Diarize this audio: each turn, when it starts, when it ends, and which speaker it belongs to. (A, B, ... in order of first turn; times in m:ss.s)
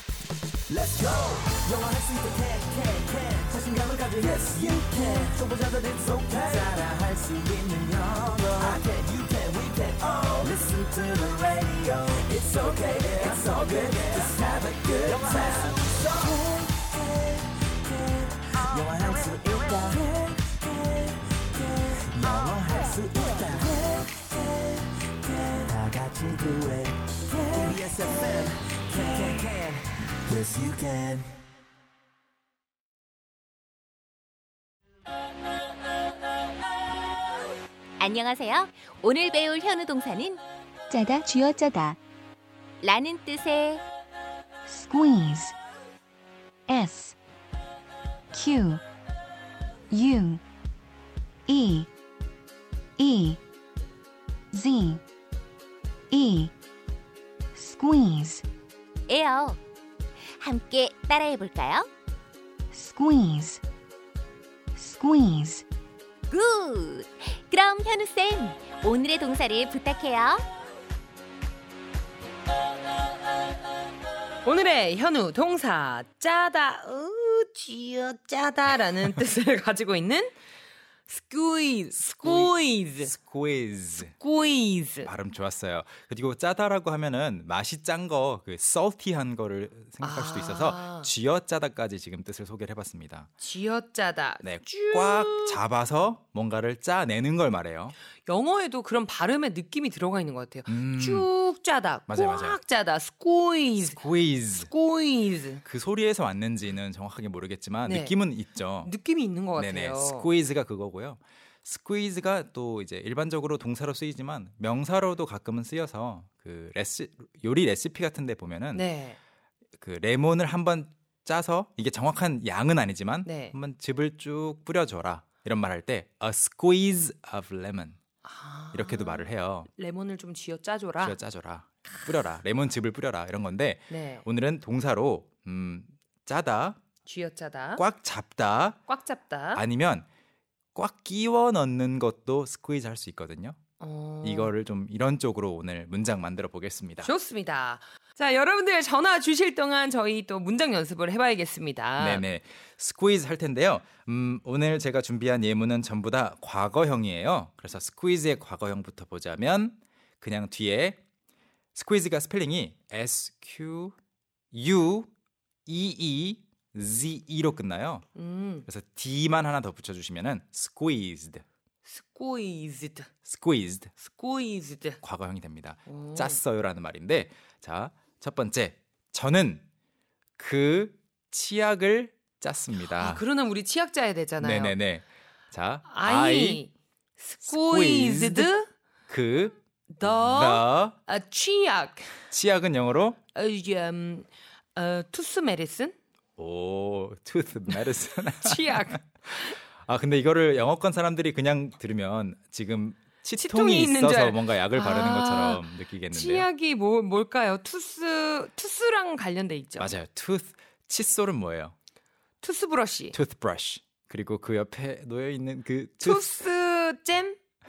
0:00.7-0:16.7 A
0:18.5-0:24.5 A
0:25.3-0:31.3 A
0:38.0-0:40.4 B
0:40.9-0:42.0 C
0:42.8-0:43.8 B
0:44.7-0:45.6 C
0:46.7-0:47.2 C
0:48.3-0:48.8 C
0:49.9-0:50.4 C
0:51.5-0:51.9 C
0:53.0-0:53.4 C
0:54.5-0:55.0 C
0:56.1-0:56.5 C
0:57.6-0:58.5 C
0:59.1-0:59.6 B
1:00.4-1:01.9 B
1:02.7-1:03.6 C
1:04.8-1:05.6 C
1:06.3-1:10.4 B
1:14.4-1:20.4 D
1:21.1-1:23.2 D
1:22.2-1:24.1 E
1:24.0-1:25.1 D
1:25.0-1:33.3 E
1:30.0-1:31.1 D
1:33.4-1:35.6 D
1:34.4-1:38.0 E
1:38.3-1:44.0 D
1:40.7-1:41.3 E
1:42.1-1:42.6 E
1:43.8-1:44.7 E
1:44.6-1:45.6 D
1:45.6-1:48.9 E
1:47.9-1:48.2 D
1:48.8-1:50.3 D
1:49.6-1:58.9 E
1:58.7-1:59.2 D
1:59.8-2:08.0 E
2:03.2-2:03.6 D
2:08.2-2:11.2 D
2:08.7-2:09.7 E
2:11.0-2:16.8 E
2:11.9-2:12.3 D
2:13.9-2:14.3 D
2:17.0-2:17.8 D
2:17.8-2:18.8 E
2:18.9-2:19.6 D
2:19.6-2:20.1 E
2:20.8-2:23.6 E
2:23.8-2:24.5 D
2:24.2-2:27.1 E
2:27.0-2:32.3 D
2:32.0-2:41.0 E
2:41.8-2:43.9 E
2:44.5-2:45.1 E
2:45.7-2:48.0 E
2:48.2-2:48.7 D
2:48.7-2:51.4 E
2:51.8-2:53.1 D
2:53.2-2:53.9 E
2:54.0-2:55.0 D
2:55.0-2:59.6 E
2:55.9-2:56.4 D
3:00.4-3:03.2 E
3:02.9-3:04.8 D
3:04.4-3:06.6 E
3:05.9-3:08.7 D
3:07.5-3:08.5 E
3:09.1-3:11.0 E
3:09.9-3:12.1 D
3:12.3-3:13.2 E
3:13.3-3:16.0 D
3:16.4-3:26.5 E
3:18.4-3:19.6 D
3:23.4-3:29.9 D
3:29.8-3:31.8 E
3:32.4-3:33.2 D
3:33.1-3:36.3 E
3:36.0-3:37.4 D